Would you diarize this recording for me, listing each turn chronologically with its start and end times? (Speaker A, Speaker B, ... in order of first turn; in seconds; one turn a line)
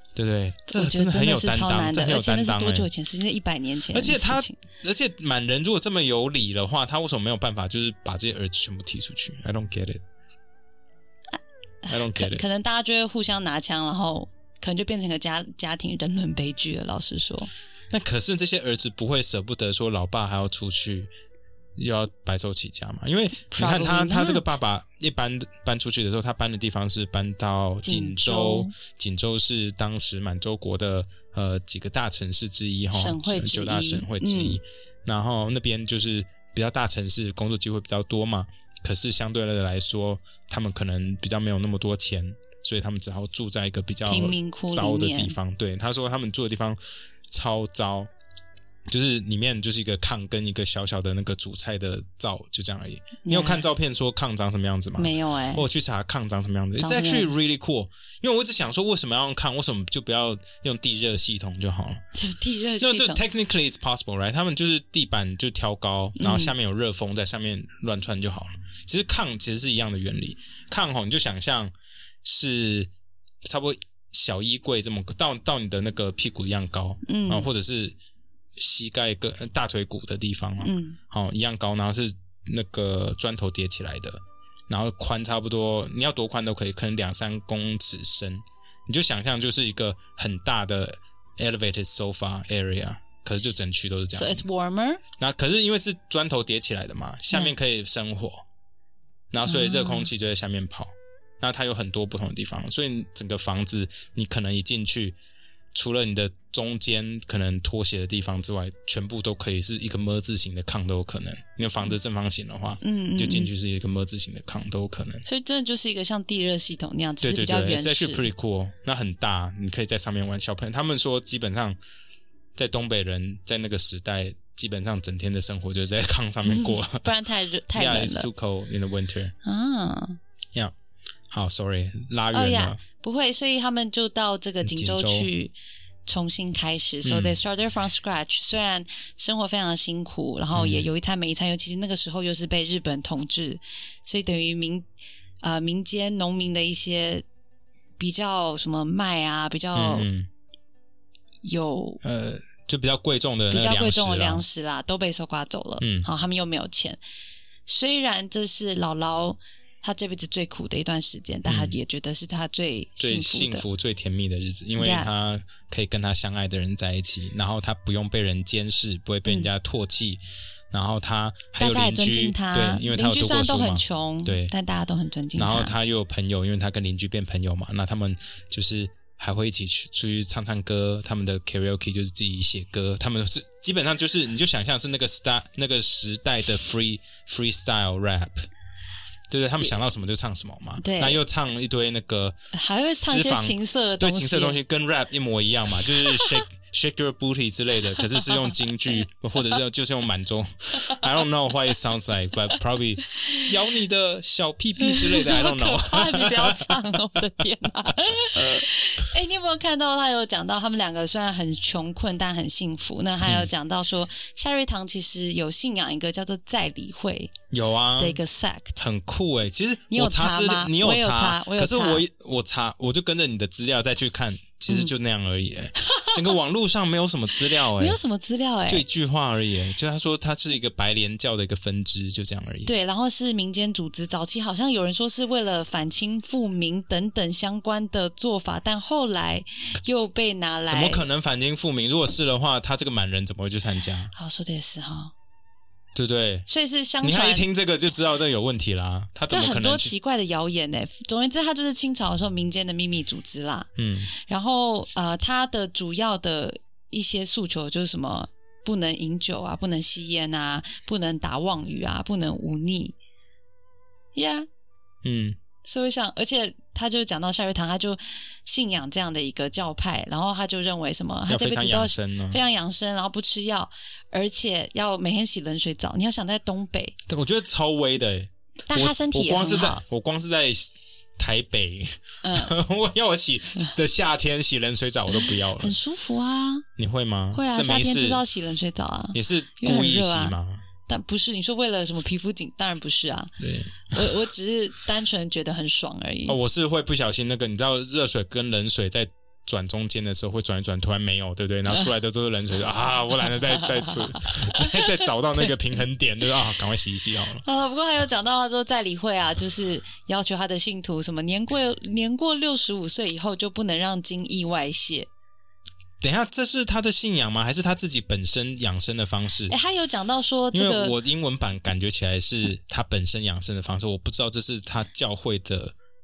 Speaker A: 0.1-2.9
Speaker B: 0.7-4.5
Speaker A: 3.9-10.0
Speaker B: 11.8-17.5
Speaker A: 11.9-12.4
Speaker A: 17.9-21.1
Speaker A: 21.8-46.8
Speaker B: 23.5-24.6
Speaker B: 27.8-28.7
Speaker B: 32.9-34.6
Speaker B: 44.0-45.4
Speaker A: 47.3-48.1
Speaker A: 48.9-62.0
Speaker B: 53.2-53.6
Speaker B: 55.0-55.6
Speaker B: 56.8-57.3
Speaker B: 62.1-63.2
Speaker A: 62.8-71.7
Speaker B: 66.2-66.5
Speaker A: 72.2-72.9
Speaker A: 73.4-78.0
Speaker B: 77.0-77.5
Speaker A: 78.5-94.4
Speaker B: 80.6-81.0
Speaker B: 94.1-95.0
Speaker A: 95.2-98.4
Speaker A: 99.3-105.2
Speaker B: 99.5-100.1
Speaker A: 105.7-115.2
Speaker B: 112.8-113.5
Speaker B: 115.2-118.2
Speaker A: 117.2-121.8
Speaker A: 122.5-127.1
Speaker B: 126.5-128.3
Speaker A: 127.7-129.3
Speaker B: 129.4-130.2
Speaker A: 131.3-132.8
Speaker B: 132.3-135.5
Speaker A: 134.6-135.3
Speaker B: 136.1-144.9
Speaker A: 137.0-137.4
Speaker A: 140.5-140.8
Speaker B: 145.4-147.2
Speaker B: 148.0-150.1
Speaker A: 149.7-150.3
Speaker B: 151.4-152.0
Speaker A: 152.0-154.4
Speaker B: 153.5-157.0
Speaker A: 155.8-156.1
Speaker B: 157.7-163.7
Speaker A: 161.4-161.8
Speaker A: 163.0-174.5
Speaker B: 164.8-165.1
Speaker B: 171.6-175.7
Speaker A: 175.3-188.5
Speaker A: 189.3-192.3
Speaker B: 190.8-191.2
Speaker B: 192.5-194.6
Speaker A: 193.0-206.9
Speaker B: 195.9-196.4
Speaker B: 203.2-203.5
Speaker B: 204.8-217.3
Speaker A: 208.3-208.7
Speaker A: 213.2-213.5
Speaker A: 217.5-218.2
Speaker B: 218.0-218.8
Speaker A: 218.8-228.0
Speaker B: 219.9-222.0
Speaker B: 225.8-226.2
Speaker B: 227.6-228.8
Speaker A: 228.7-232.7
Speaker B: 232.7-241.1
Speaker A: 240.7-244.1
Speaker B: 244.1-245.1
Speaker A: 245.9-246.5
Speaker B: 246.5-247.4
Speaker A: 247.0-249.9
Speaker B: 249.3-262.9
Speaker A: 253.8-254.1
Speaker B: 264.1-264.5
Speaker A: 265.0-265.4
Speaker B: 265.6-276.9
Speaker A: 271.3-272.4
Speaker A: 277.1-285.8
Speaker B: 278.7-279.8
Speaker B: 282.2-282.5
Speaker B: 285.1-286.6
Speaker A: 286.8-288.2
Speaker B: 287.3-290.3
Speaker A: 289.1-290.6
Speaker B: 290.9-296.4
Speaker A: 293.4-294.2
Speaker A: 296.3-307.4
Speaker B: 303.3-305.5
Speaker B: 307.4-315.1
Speaker A: 316.0-319.6
Speaker B: 319.5-320.9
Speaker A: 320.5-325.7